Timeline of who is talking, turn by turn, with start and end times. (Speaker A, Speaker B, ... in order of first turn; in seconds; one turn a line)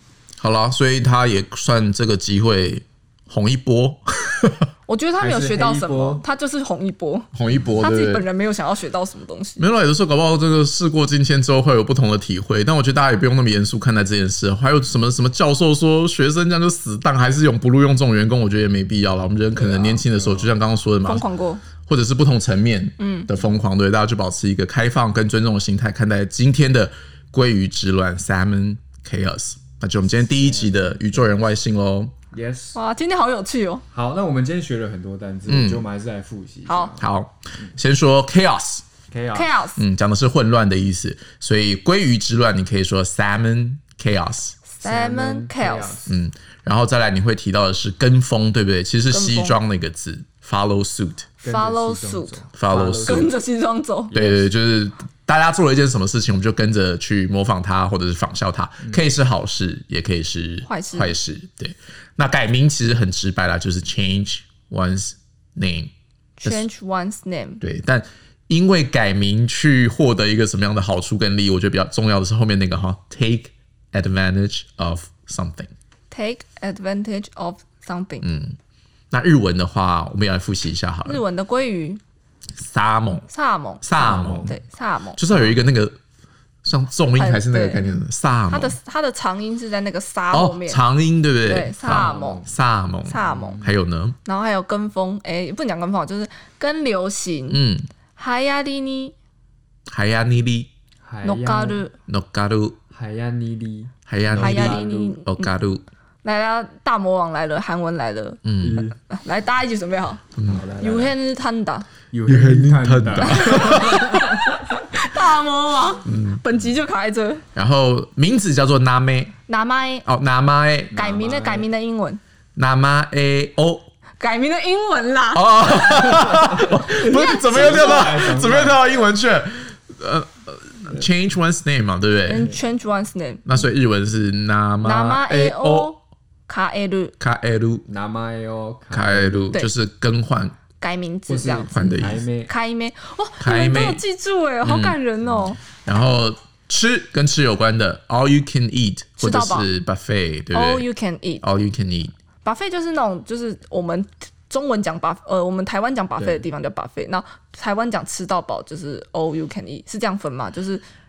Speaker A: 0.4-4.7
Speaker B: 4.9-9.7
Speaker C: 5.2-6.2
Speaker A: 7.3-8.2
Speaker A: 9.6-21.3
Speaker B: 19.6-20.0
Speaker C: 19.9-20.5
Speaker B: 21.0-21.6
Speaker A: 21.8-32.1
Speaker B: 23.0-23.3
Speaker C: 30.2-31.3
Speaker C: 32.3-32.8
Speaker B: 32.7-33.8
Speaker C: 33.9-37.1
Speaker A: 35.5-35.8
Speaker B: 36.7-36.9
Speaker A: 37.0-38.8
Speaker C: 39.1-39.5
Speaker B: 39.3-39.8
Speaker A: 39.8-44.6
Speaker B: 44.7-46.0
Speaker C: 44.8-46.2
Speaker A: 46.1-51.3
Speaker B: 49.1-49.6
Speaker C: 51.4-53.3
Speaker B: 51.4-52.3
Speaker A: 52.5-53.3
Speaker B: 53.0-54.1
Speaker C: 54.1-54.5
Speaker A: 54.1-65.9
Speaker B: 60.6-61.2
Speaker B: 66.4-67.6
Speaker A: 67.6-75.7
Speaker B: 76.1-78.2
Speaker A: 78.2-78.6
Speaker A: 79.1-81.2
Speaker B: 81.0-82.0
Speaker A: 82.5-83.2
Speaker B: 83.3-85.2
Speaker A: 83.8-84.5
Speaker C: 84.0-84.6
Speaker A: 85.2-86.0
Speaker C: 85.3-85.6
Speaker A: 86.6-88.8
Speaker B: 87.1-87.9
Speaker B: 88.5-90.8
Speaker A: 90.3-94.2
Speaker B: 91.4-92.4
Speaker C: 91.8-92.5
Speaker B: 93.0-93.6
Speaker C: 93.1-93.8
Speaker B: 94.2-97.6
Speaker A: 97.5-97.9
Speaker B: 98.2-99.1
Speaker A: 99.9-100.7
Speaker C: 101.0-101.9
Speaker B: 101.2-101.9
Speaker A: 102.1-102.8
Speaker C: 102.9-105.2
Speaker A: 104.1-105.8
Speaker B: 104.4-105.5
Speaker B: 106.2-108.4
Speaker A: 108.4-108.9
Speaker C: 108.6-108.9
Speaker B: 109.0-110.2
Speaker A: 110.3-110.6
Speaker C: 110.4-111.2
Speaker B: 110.8-111.9
Speaker C: 112.1-114.6
Speaker A: 112.3-114.2
Speaker B: 113.2-117.4
Speaker A: 116.0-116.4
Speaker A: 117.5-119.3
Speaker B: 119.5-120.0
Speaker A: 120.0-121.0
Speaker C: 120.9-121.7
Speaker B: 120.9-122.2
Speaker A: 122.5-123.9
Speaker B: 124.2-128.2
Speaker A: 125.3-132.5
Speaker C: 126.1-128.8
Speaker B: 132.2-133.4
Speaker A: 133.4-135.9
Speaker B: 134.8-137.1
Speaker A: 137.2-137.8
Speaker C: 137.9-139.6
Speaker A: 138.9-140.6
Speaker B: 140.8-145.6
Speaker C: 141.3-142.5
Speaker A: 141.7-142.2
Speaker A: 143.4-144.0
Speaker A: 144.6-145.0
Speaker A: 145.7-150.9
Speaker B: 149.2-149.7
Speaker B: 150.5-151.4
Speaker A: 151.4-152.1
Speaker B: 152.4-160.8
Speaker C: 156.2-156.4